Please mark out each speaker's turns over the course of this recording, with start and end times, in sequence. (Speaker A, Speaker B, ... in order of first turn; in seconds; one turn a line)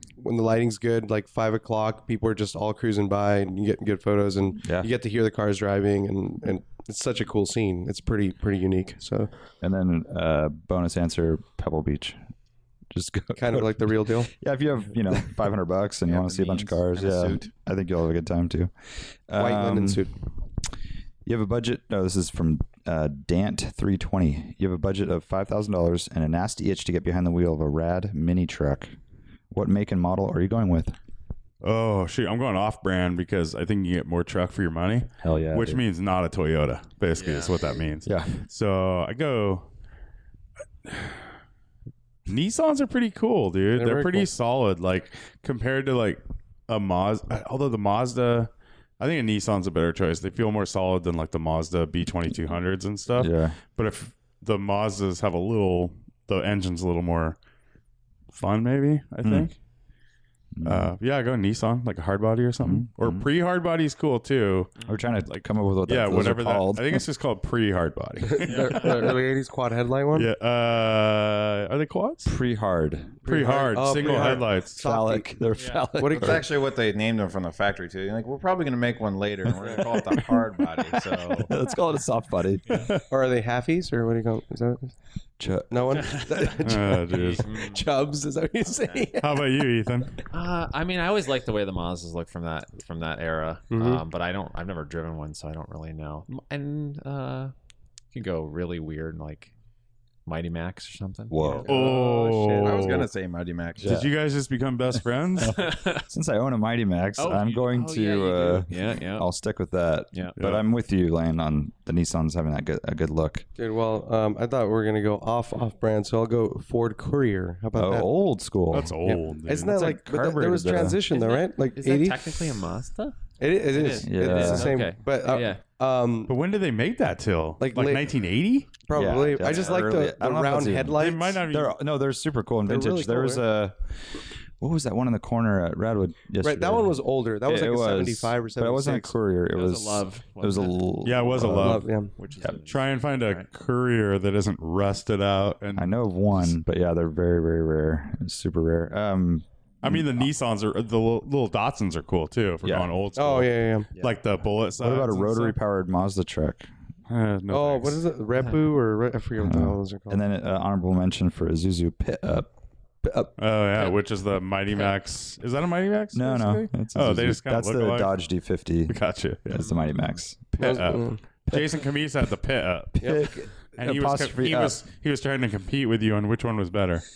Speaker A: 0.2-9.3
Speaker B: 4.6-4.9
Speaker B: 9.6-12.2
Speaker B: 12.9-20.0
Speaker A: 13.3-14.3
Speaker C: 16.1-17.5
Speaker A: 19.4-20.1
Speaker B: 21.2-28.9
Speaker B: 29.5-30.9
Speaker D: 31.6-39.6
Speaker B: 35.2-35.8
Speaker E: 37.1-37.7
Speaker B: 38.0-38.4
Speaker D: 40.9-41.2
Speaker D: 42.3-57.4
Speaker A: 43.7-44.3
Speaker B: 53.1-53.6
Speaker D: 58.3-59.5
Speaker B: 59.2-59.5
Speaker B: 60.5-60.9
Speaker D: 60.6-64.7
Speaker B: 62.6-63.3
Speaker E: 64.8-65.0
Speaker B: 64.9-67.0
Speaker D: 65.3-69.2
Speaker A: 68.3-70.3
Speaker E: 68.4-69.1
Speaker D: 70.1-72.3
Speaker B: 72.2-73.2
Speaker A: 73.2-75.3
Speaker D: 73.2-74.8
Speaker B: 74.0-76.4
Speaker E: 75.5-75.9
Speaker A: 76.0-76.5
Speaker C: 76.1-81.5
Speaker B: 81.4-82.9
Speaker D: 82.7-83.0
Speaker A: 83.1-84.9
Speaker B: 85.4-86.2
Speaker A: 85.7-89.5
Speaker E: 86.1-86.4
Speaker D: 86.6-87.5
Speaker E: 87.1-87.9
Speaker D: 89.2-90.2
Speaker E: 90.3-97.5
Speaker A: 93.7-94.0
Speaker E: 98.1-99.5
Speaker E: 100.2-101.7
Speaker B: 101.3-101.7
Speaker A: 101.5-102.9
Speaker D: 101.7-103.1
Speaker C: 102.6-104.0
Speaker B: 103.8-104.1
Speaker D: 103.8-105.6
Speaker B: 105.4-113.5
Speaker E: 105.6-106.0
Speaker E: 107.2-109.3
Speaker D: 110.4-110.6
Speaker A: 113.6-118.1
Speaker B: 117.7-119.0
Speaker D: 118.7-119.8
Speaker A: 119.0-122.3
Speaker B: 119.6-121.0
Speaker E: 121.1-123.2
Speaker A: 123.4-126.3
Speaker E: 123.7-125.6
Speaker B: 124.0-124.8
Speaker D: 126.3-128.7
Speaker A: 127.6-128.0
Speaker A: 128.8-131.4
Speaker B: 128.9-133.9
Speaker E: 129.4-129.7
Speaker D: 131.0-131.8
Speaker A: 132.7-133.4
Speaker B: 134.6-141.8
Speaker A: 136.4-139.1
Speaker E: 139.5-141.4
Speaker D: 141.0-141.9
Speaker A: 141.4-142.1
Speaker E: 142.1-143.5
Speaker D: 142.7-145.9
Speaker B: 145.7-150.3
Speaker D: 149.8-155.6
Speaker B: 152.6-152.9
Speaker A: 153.2-153.9
Speaker E: 153.9-154.2
Speaker B: 154.8-156.7
Speaker D: 157.1-158.0
Speaker A: 157.5-160.2
Speaker B: 159.4-162.5
Speaker B: 163.0-163.3
Speaker D: 163.4-168.1
Speaker B: 166.1-170.5
Speaker D: 168.9-169.6
Speaker D: 170.5-173.2
Speaker A: 170.6-171.2
Speaker B: 171.5-171.8
Speaker A: 173.0-173.2
Speaker B: 173.0-174.8
Speaker D: 173.7-177.1